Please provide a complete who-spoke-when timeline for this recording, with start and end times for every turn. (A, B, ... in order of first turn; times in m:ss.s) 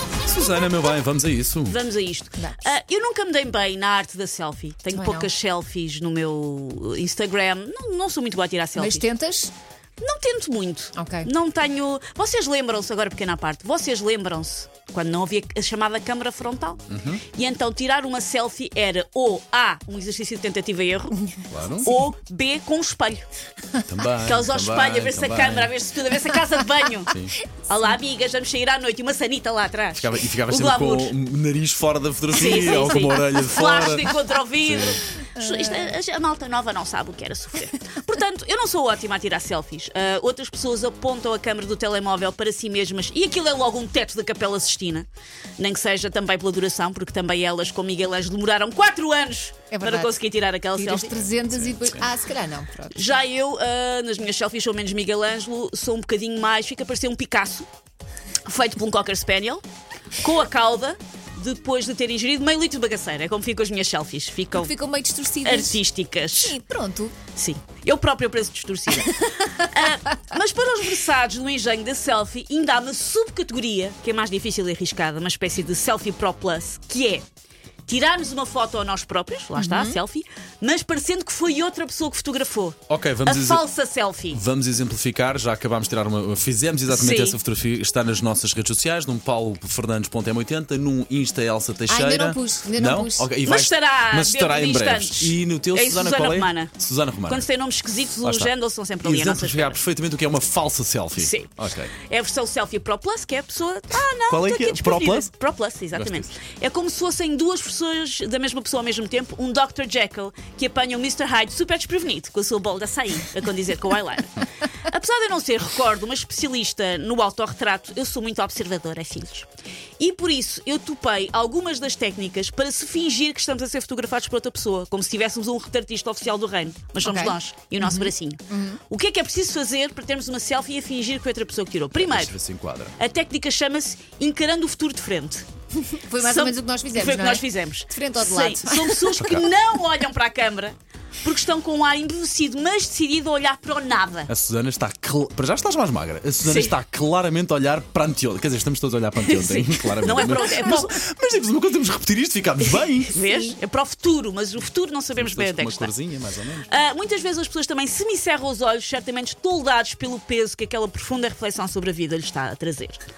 0:00.2-0:01.8 A
0:01.7-0:09.0 B
0:04.9-0:05.3 C
0:08.8-0:09.5 C
0:10.0-0:21.3 B
0:11.0-0:11.3 C
0:16.9-0:17.2 A
0:21.5-0:22.0 A
0:21.8-0:23.3 B
0:23.8-0:25.7 A
0:24.2-0:27.1 B
0:27.1-0:27.4 A
0:27.6-0:31.1 B
0:29.9-0:35.0 A
0:32.3-0:51.2 B
0:32.5-0:32.8 C
0:35.2-0:35.9 C
0:49.7-0:50.2 C
0:50.7-0:53.2 C
0:51.2-0:52.0 A
0:52.9-0:57.7 B
0:58.4-0:59.6 B
1:00.2-1:04.7 B
1:04.5-1:07.1 C
1:05.4-1:06.6 B
1:07.3-1:17.2 B
1:17.9-1:24.4 B
1:19.6-1:19.9 C
1:22.9-1:23.6 A
1:24.3-1:37.5 A
1:26.9-1:27.4 B
1:31.9-1:33.3 C
1:33.4-1:36.7 B
1:37.2-1:39.8 B
1:38.2-1:41.9 A
1:41.2-1:59.5 B
1:44.3-1:45.3 A
1:45.9-1:46.3 A
2:00.0-2:12.3 B
2:07.0-2:08.8 C
2:12.0-2:12.9 A
2:13.0-2:15.4 B
2:15.8-2:19.0 C
2:16.2-2:24.3 B
2:24.3-2:33.2 A
2:26.4-2:26.7 B
2:29.2-2:31.0 B
2:33.0-2:35.9 B
2:35.2-2:36.7 A
2:36.7-2:43.0 B